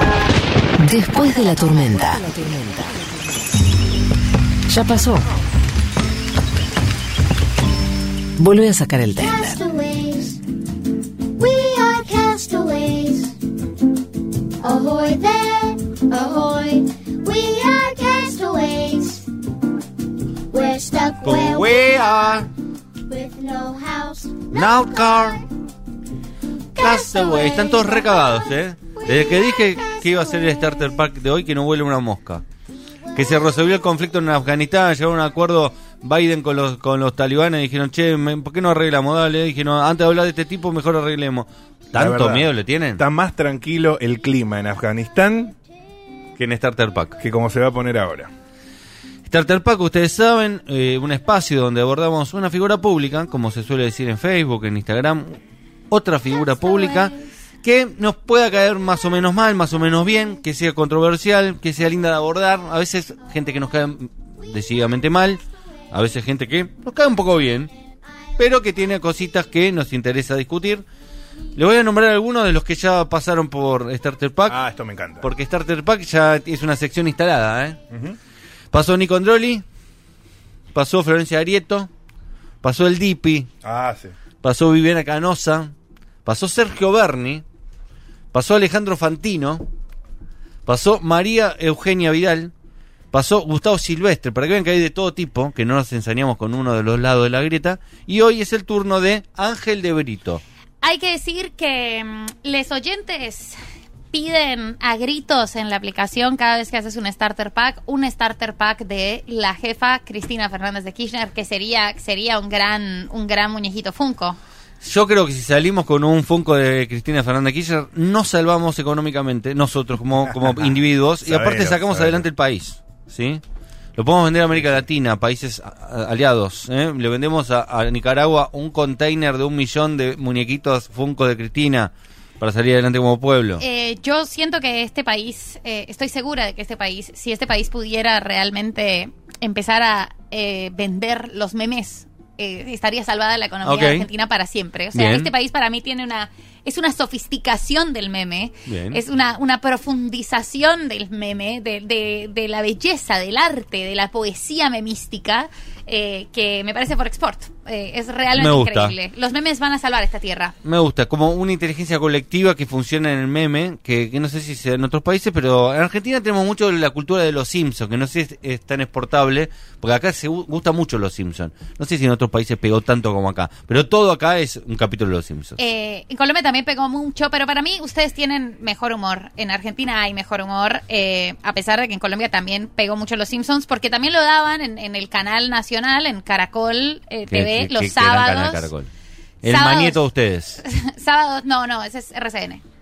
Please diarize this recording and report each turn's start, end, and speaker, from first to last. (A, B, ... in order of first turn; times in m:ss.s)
0:00.8-0:03.0 A
0:04.7-0:05.2 A
0:08.4-0:09.6 A
0:09.1-0:10.4 B
0:11.4-0:13.4 B
0:14.6-0:19.3 B
0:20.5-0:22.4 B
0:21.2-0:22.5 C
0:23.0-0:25.4 B
0:24.5-0:25.4 C
0:26.7-0:30.9 B
0:26.8-0:32.4 C
0:33.1-0:43.0 C
0:33.2-0:33.7 B
0:41.9-0:45.6 D
0:46.4-0:47.2 C
0:47.2-0:48.3 D
0:49.3-0:55.4 C
0:55.9-1:07.7 C
1:08.4-1:10.8 C
1:11.6-1:14.6 C
1:14.5-1:15.3 D
1:15.2-1:17.8 C
1:17.9-1:18.2 D
1:18.7-1:19.6 C
1:20.7-1:21.9 C
1:22.6-1:23.5 C
1:23.6-1:24.1 D
1:24.4-1:25.7 C
1:26.2-1:27.4 C
1:28.3-1:29.6 C
1:30.6-1:32.5 C
1:33.1-1:40.4 C
1:40.8-1:43.5 E
1:44.1-1:54.4 E
1:54.8-2:03.4 C
2:00.2-2:02.3 D
2:04.0-2:13.6 C
2:13.6-2:40.5 E
2:23.6-2:24.0 C
2:24.9-2:25.3 C
2:28.7-2:29.0 C
2:38.4-2:39.0 C
2:40.6-2:55.6 C
2:55.6-3:08.7 E
3:07.3-3:08.9 C
3:09.4-3:10.6 C
3:09.4-3:10.0 E
3:10.6-3:12.6 E